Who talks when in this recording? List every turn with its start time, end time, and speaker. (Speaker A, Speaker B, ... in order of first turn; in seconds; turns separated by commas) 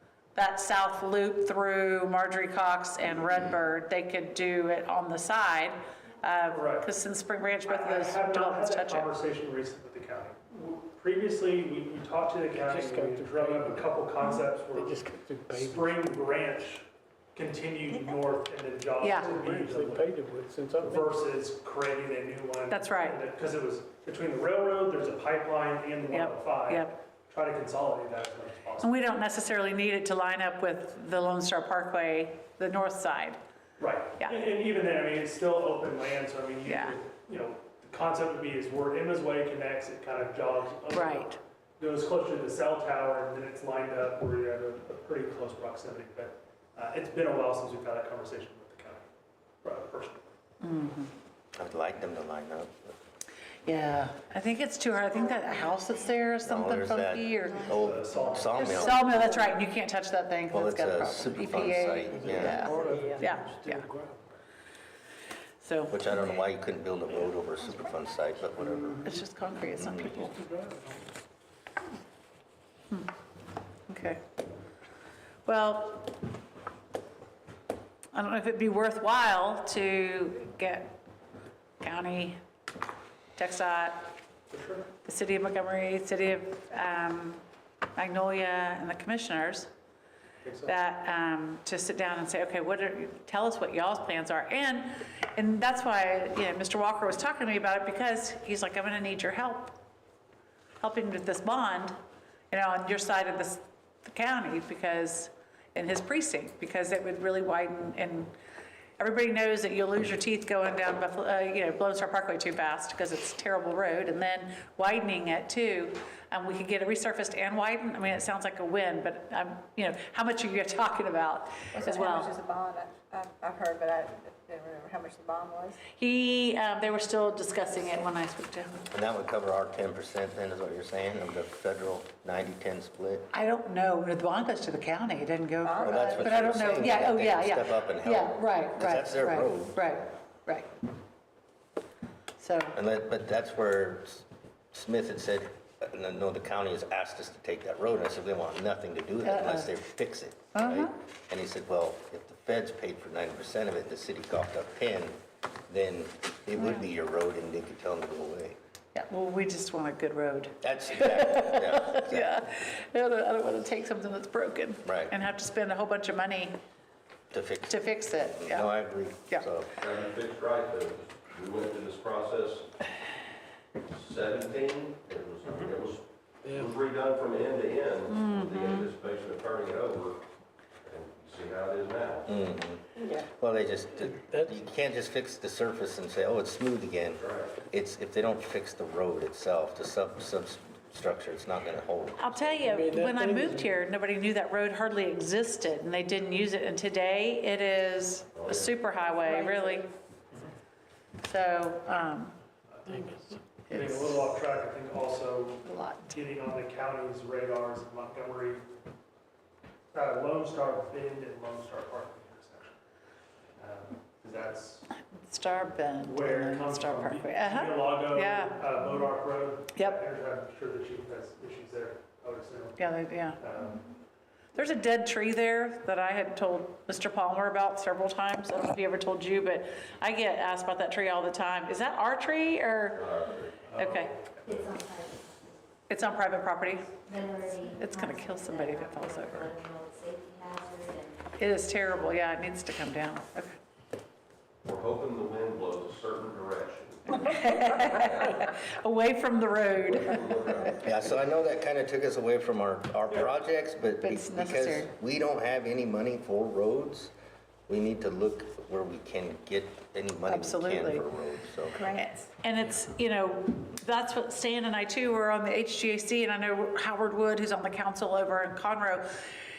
Speaker A: 0.3-9.1, Speaker B: 6.5-6.9, Speaker B: 7.6-20.1, Speaker C: 12.5-13.9, Speaker C: 14.7-16.0, Speaker A: 19.0-19.3, Speaker C: 19.1-21.2, Speaker B: 20.8-29.1, Speaker A: 22.7-23.2, Speaker A: 26.1-27.0, Speaker A: 28.8-33.4, Speaker B: 33.8-49.1, Speaker A: 36.6-37.0, Speaker A: 40.9-41.4, Speaker B: 49.6-50.3, Speaker A: 50.6-51.1, Speaker D: 51.5-53.0, Speaker A: 53.7-57.7, Speaker D: 56.4-59.2, Speaker B: 57.6-59.3, Speaker A: 58.5-63.9, Speaker D: 60.5-62.7, Speaker C: 62.1-64.4, Speaker A: 65.6-66.0, Speaker D: 65.9-69.1, Speaker C: 68.7-69.2, Speaker A: 69.0-70.4, Speaker D: 69.8-70.3, Speaker C: 69.8-71.1, Speaker A: 73.9-74.2, Speaker A: 75.5-76.2, Speaker A: 78.1-81.0, Speaker A: 81.8-82.4, Speaker A: 83.4-84.2, Speaker B: 84.5-84.9, Speaker A: 85.0-87.4, Speaker A: 88.0-89.7, Speaker B: 90.4-90.8, Speaker A: 90.7-99.8, Speaker A: 100.8-102.0, Speaker A: 102.5-108.3, Speaker A: 109.0-122.4, Speaker E: 121.7-125.8, Speaker A: 125.9-128.9, Speaker D: 128.9-133.3, Speaker A: 133.3-140.7, Speaker E: 135.6-136.5, Speaker D: 135.8-140.0, Speaker A: 142.4-142.8, Speaker D: 142.7-155.2, Speaker A: 149.2-149.7, Speaker A: 150.5-150.9, Speaker D: 155.7-158.6, Speaker A: 158.9-166.6, Speaker D: 160.6-162.4, Speaker D: 164.8-165.1, Speaker D: 167.3-169.7, Speaker A: 167.7-168.7, Speaker F: 169.8-172.7, Speaker F: 173.8-180.3, Speaker C: 176.4-176.8, Speaker A: 178.1-178.9, Speaker F: 180.8-182.3, Speaker D: 182.3-192.8, Speaker C: 184.1-184.6, Speaker F: 187.2-187.5, Speaker A: 192.2-199.9, Speaker C: 192.7-193.7, Speaker F: 198.3-198.7, Speaker E: 199.2-199.8, Speaker A: 201.2-202.3, Speaker B: 202.7-208.8, Speaker C: 202.9-203.4, Speaker A: 203.7-204.2, Speaker A: 205.6-206.2, Speaker B: 209.9-212.8, Speaker B: 213.6-214.9, Speaker A: 215.2-218.9, Speaker B: 216.0-223.8, Speaker A: 222.8-223.4, Speaker A: 224.5-233.1, Speaker F: 232.9-233.6, Speaker B: 233.7-234.7, Speaker A: 233.8-234.2, Speaker G: 234.4-235.7, Speaker A: 235.9-237.0, Speaker G: 236.9-241.2, Speaker A: 237.7-239.5, Speaker A: 241.4-243.6, Speaker F: 244.6-247.2, Speaker A: 247.1-250.8, Speaker F: 248.1-248.4, Speaker F: 249.7-250.9, Speaker D: 250.8-257.1, Speaker A: 254.0-254.9, Speaker D: 257.7-261.8, Speaker A: 260.3-261.0, Speaker E: 261.7-262.1, Speaker A: 261.9-269.1